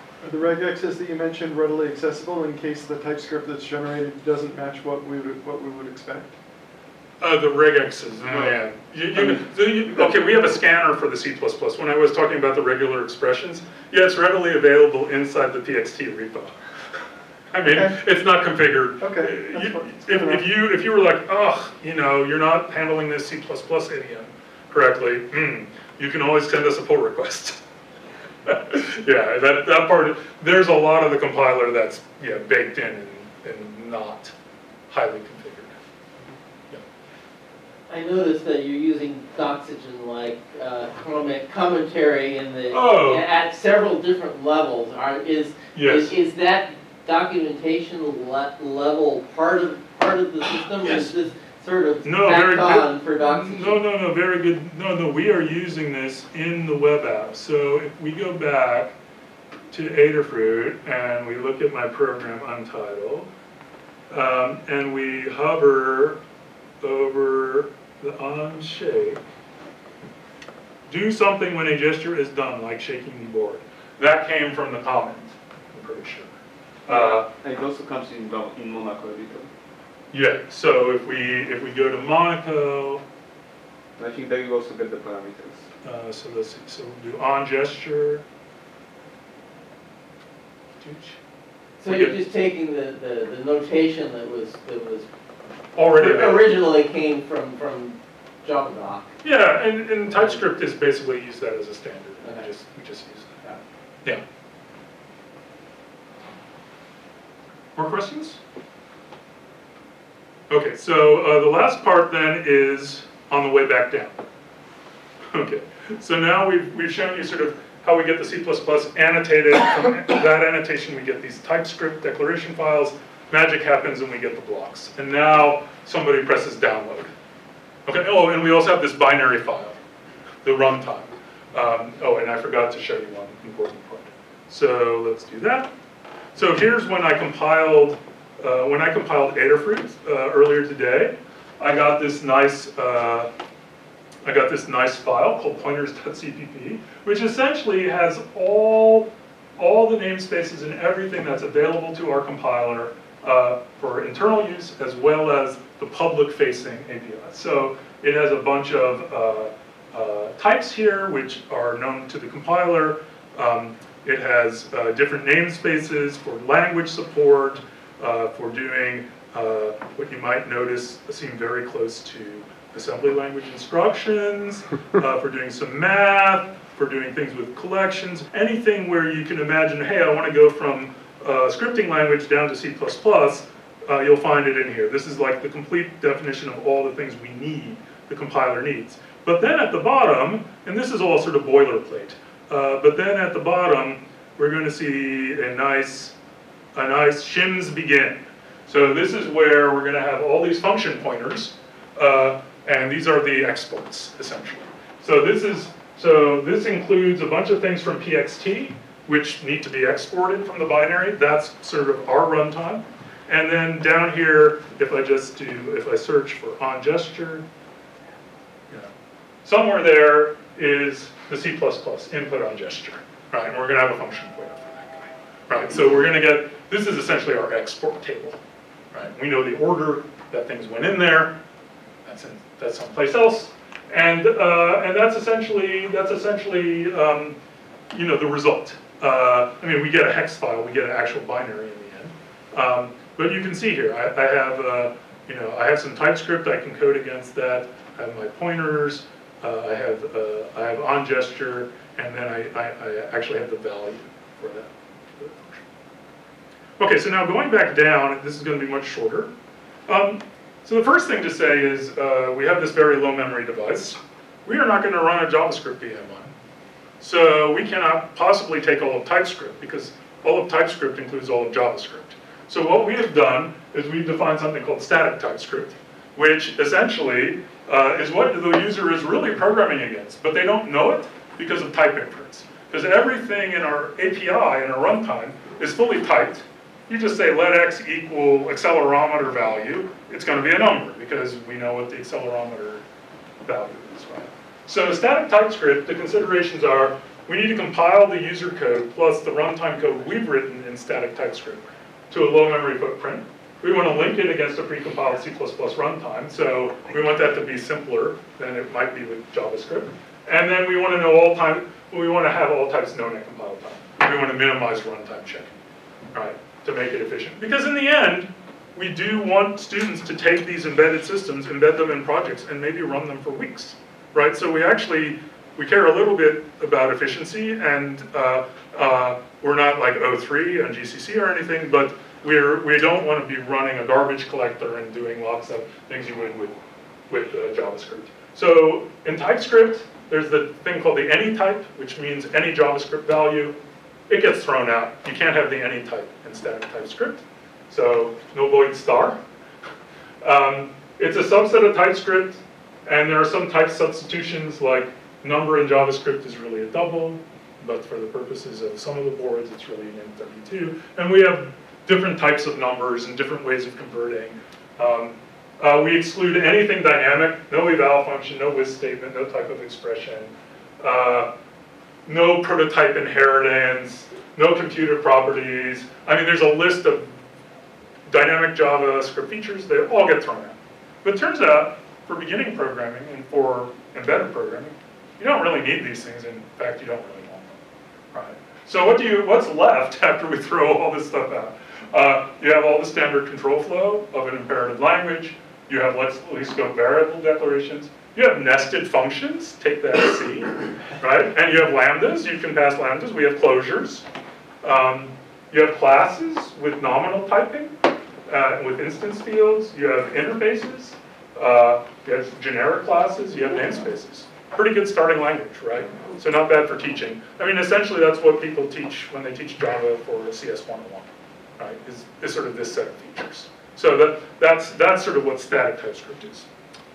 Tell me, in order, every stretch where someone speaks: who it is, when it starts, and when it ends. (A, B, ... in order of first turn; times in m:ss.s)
0:00.2-0:06.3 A
0:07.2-0:16.6 B
0:17.5-0:27.6 B
0:19.0-0:20.4 A
0:28.4-0:34.3 B
0:34.9-0:35.8 B
0:37.9-0:53.8 C
0:42.7-0:43.3 B
0:45.7-0:46.1 B
0:52.0-0:58.9 B
0:59.7-1:03.3 B
1:04.1-1:06.2 B
1:06.8-1:09.2 B
1:10.9-1:16.4 B
1:16.9-1:17.3 B
1:16.9-1:19.5 D
1:20.1-1:23.0 B
1:24.0-1:25.7 D
1:25.8-1:28.2 B
1:30.8-1:31.2 B
1:31.8-1:35.1 C
1:31.8-1:32.2 B
1:35.8-1:36.6 B
1:36.0-1:39.1 C
1:39.2-1:44.2 B
1:42.2-1:42.5 C
1:47.8-1:48.4 B
1:50.5-1:54.2 B
1:55.3-2:07.1 B
2:07.9-2:09.8 B
2:10.4-2:15.7 B
2:16.4-2:23.3 B
2:24.2-3:16.1 B
3:16.8-3:37.4 B
3:39.4-3:48.4 B
3:48.9-3:51.4 B
3:52.0-3:57.4 B
3:57.9-4:15.7 B
4:16.8-4:19.3 B
4:19.9-4:26.3 B
4:27.0-4:52.8 B
4:53.5-5:15.5 B
5:16.1-5:36.6 B
5:37.1-5:43.6 B
5:44.1-5:49.2 B
5:50.2-6:11.3 B
6:12.0-6:17.1 B
6:18.1-6:27.6 B
6:28.1-6:44.0 B
6:44.6-6:47.7 B
6:48.3-7:06.5 B